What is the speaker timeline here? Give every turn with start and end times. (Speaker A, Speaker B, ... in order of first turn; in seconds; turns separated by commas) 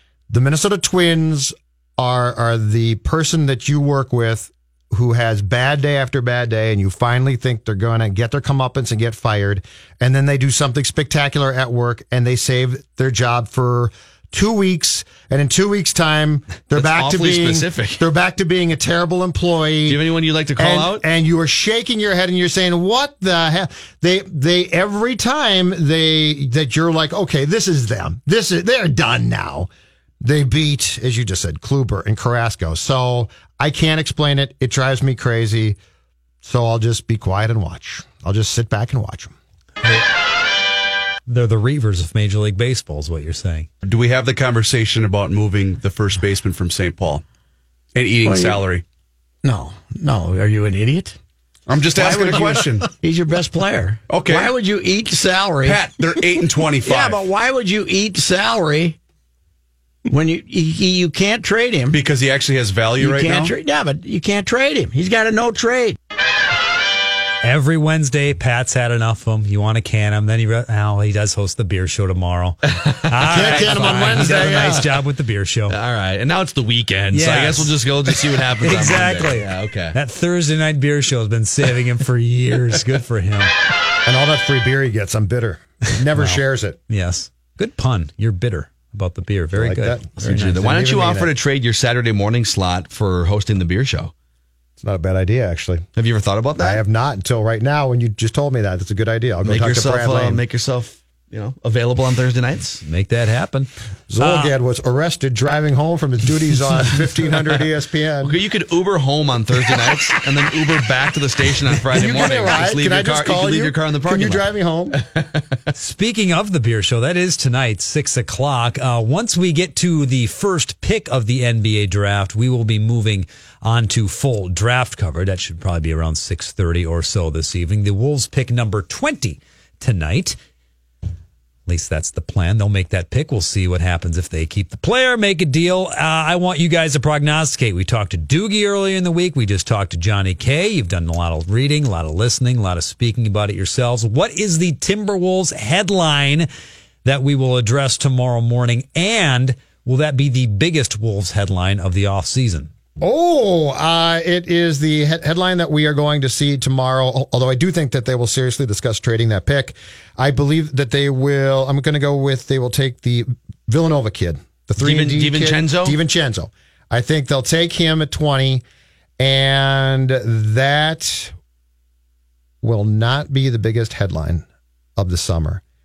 Speaker A: 0.3-20.0, Speaker B: 16.7-18.0, Speaker B: 19.9-21.0, Speaker A: 20.6-29.7, Speaker A: 30.2-35.8, Speaker A: 36.4-39.4, Speaker C: 41.3-43.7, Speaker D: 43.8-47.2, Speaker D: 48.0-48.8, Speaker E: 48.2-48.7, Speaker E: 49.4-51.2, Speaker D: 51.7-52.9, Speaker E: 51.8-59.0, Speaker D: 54.1-54.5, Speaker D: 55.7-57.2, Speaker E: 60.1-62.0, Speaker D: 61.9-63.5, Speaker E: 63.0-66.0, Speaker C: 67.4-75.8, Speaker B: 72.7-74.9, Speaker A: 73.3-74.9, Speaker B: 75.7-80.0, Speaker C: 77.1-83.5, Speaker A: 84.0-86.8, Speaker C: 86.1-90.7, Speaker A: 89.5-91.3, Speaker B: 90.2-94.1, Speaker A: 94.8-95.9, Speaker B: 96.0-96.8, Speaker A: 96.6-100.4, Speaker B: 99.4-102.8, Speaker C: 102.8-104.5, Speaker A: 104.1-108.4, Speaker B: 108.2-115.4, Speaker A: 111.9-115.0, Speaker C: 115.8-130.4, Speaker C: 131.7-146.5, Speaker C: 147.1-152.7, Speaker A: 153.0-168.6, Speaker B: 164.8-166.0, Speaker A: 169.2-171.3, Speaker A: 172.6-174.4, Speaker A: 175.0-175.6